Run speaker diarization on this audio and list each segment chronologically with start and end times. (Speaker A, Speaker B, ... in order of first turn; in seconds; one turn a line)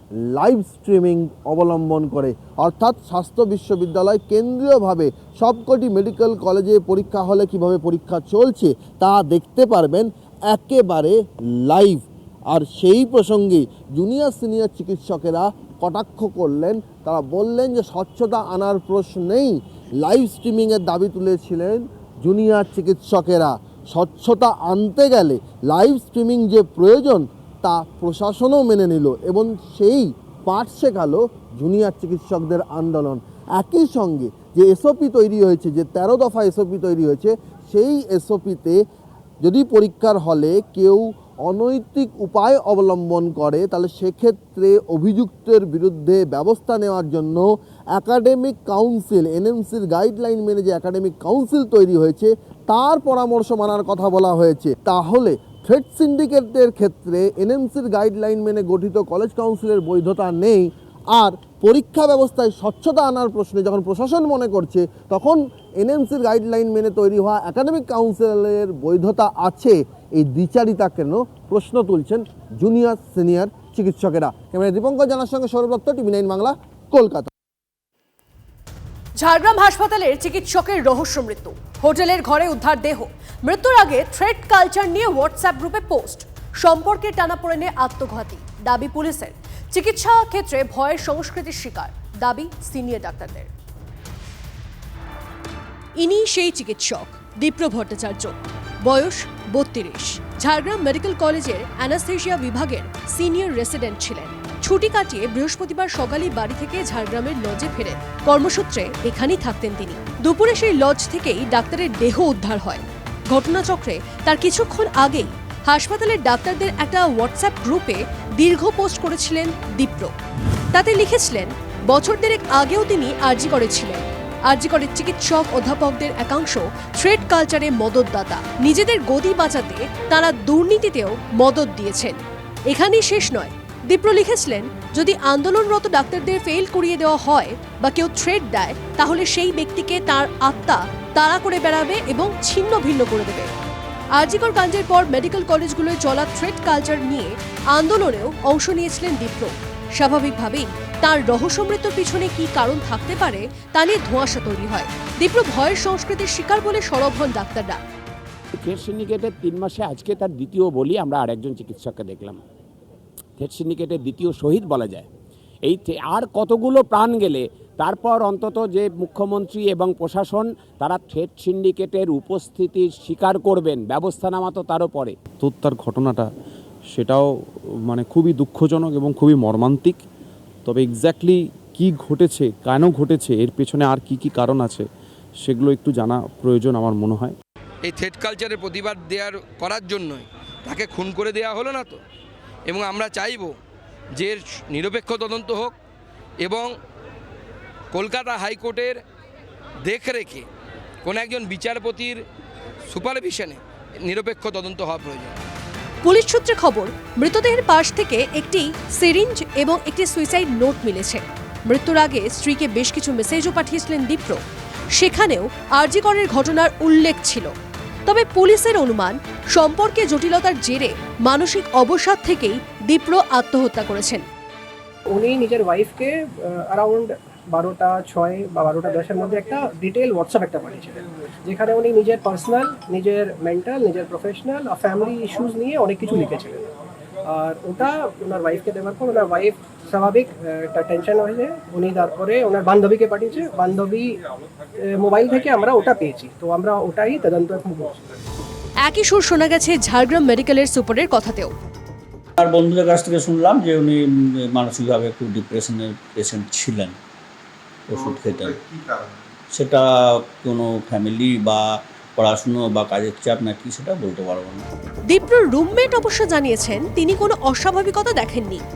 Speaker A: 0.3-38.8
Speaker A: 39.4-77.3
Speaker B: 79.2-93.5
Speaker B: 96.0-98.3
Speaker B: 98.8-120.1
Speaker B: 120.7-143.5
Speaker B: 144.2-157.8
Speaker C: 158.5-162.4
Speaker C: 163.4-165.1
Speaker C: 165.6-175.2
Speaker D: 175.4-176.3
Speaker D: 176.9-177.3
Speaker D: 177.9-180.0
Speaker D: 180.6-184.9
Speaker D: 185.4-187.3
Speaker E: 188.9-190.1
Speaker E: 191.5-191.9
Speaker E: 192.8-193.5
Speaker E: 194.3-195.7
Speaker E: 197.9-198.9
Speaker E: 199.9-200.4
Speaker E: 201.1-202.1
Speaker E: 202.9-203.6
Speaker E: 204.1-205.3
Speaker B: 206.0-214.4
Speaker B: 215.0-217.5
Speaker B: 218.1-224.2
Speaker F: 225.1-226.1
Speaker F: 226.7-236.6
Speaker F: 237.3-244.1
Speaker F: 245.0-247.9
Speaker B: 248.8-251.5
Speaker G: 252.4-254.0
Speaker G: 254.5-256.9
Speaker G: 257.9-258.5
Speaker G: 260.4-261.6
Speaker G: 262.2-264.6
Speaker B: 265.1-268.6